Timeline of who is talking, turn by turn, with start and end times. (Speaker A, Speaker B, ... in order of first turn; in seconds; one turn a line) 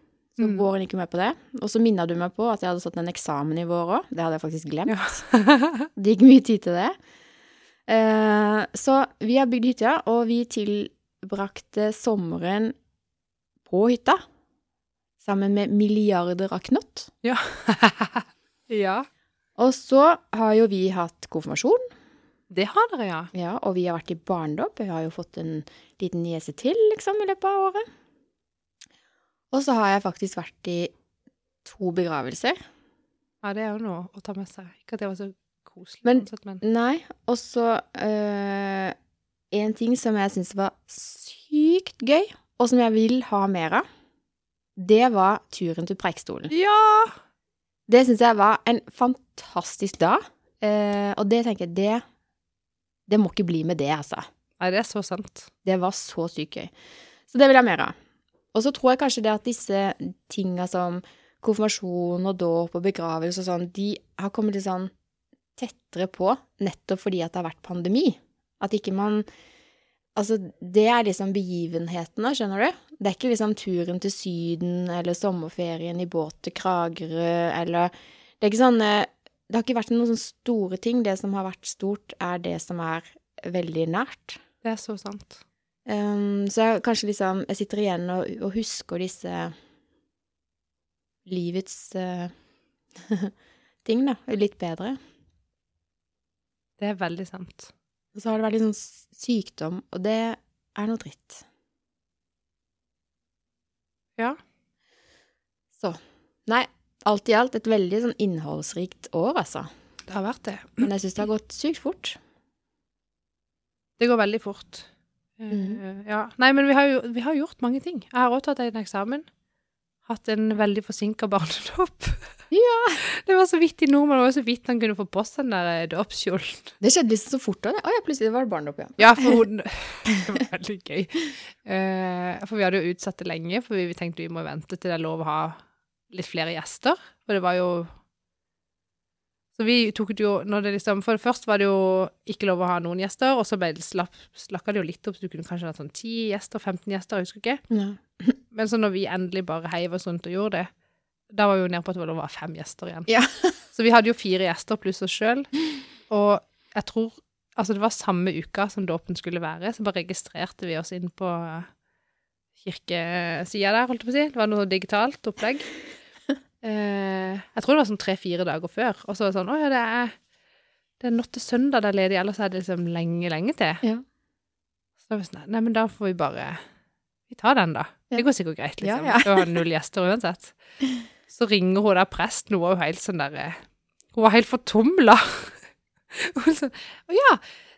Speaker A: 0.3-5.2
Speaker B: 0.4-0.6
Speaker B: 4.9-5.9
Speaker A: 6.0-6.9
Speaker A: 7.9-12.7
Speaker A: 13.7-14.2
Speaker A: 15.2-17.1
Speaker B: 17.2-19.1
Speaker A: 19.6-21.8
Speaker B: 22.5-23.3
Speaker A: 23.3-27.8
Speaker A: 29.5-30.9
Speaker A: 31.6-32.6
Speaker B: 33.4-36.6
Speaker A: 36.0-38.9
Speaker A: 39.5-43.8
Speaker A: 44.8-46.5
Speaker B: 46.5-47.1
Speaker A: 47.9-52.0
Speaker A: 53.1-54.2
Speaker B: 54.6-55.5
Speaker A: 55.6-56.7
Speaker A: 57.3-57.9
Speaker A: 58.5-64.9
Speaker A: 65.6-69.2
Speaker A: 70.1-84.4
Speaker B: 84.6-85.4
Speaker A: 85.8-89.5
Speaker A: 91.2-92.3
Speaker A: 93.0-93.3
Speaker A: 93.8-95.0
Speaker B: 96.8-97.7
Speaker A: 98.1-101.4
Speaker A: 105.8-109.7
Speaker B: 110.1-110.9
Speaker A: 110.8-112.2
Speaker B: 114.0-114.9
Speaker B: 115.4-119.2
Speaker A: 115.5-115.8
Speaker B: 120.0-122.3
Speaker A: 122.5-123.0
Speaker B: 123.0-126.7
Speaker A: 126.8-129.4
Speaker B: 129.0-135.6
Speaker B: 136.1-137.9
Speaker B: 139.6-147.6
Speaker A: 147.7-148.3
Speaker B: 148.5-150.7
Speaker B: 151.3-153.1
Speaker A: 153.1-153.5
Speaker B: 153.7-155.5
Speaker B: 156.1-161.7
Speaker B: 162.6-165.7
Speaker B: 166.6-170.1
Speaker B: 171.0-173.8
Speaker B: 175.1-176.6
Speaker B: 177.3-180.5
Speaker A: 178.8-179.5
Speaker B: 181.3-183.6
Speaker B: 184.1-185.6
Speaker B: 186.1-187.4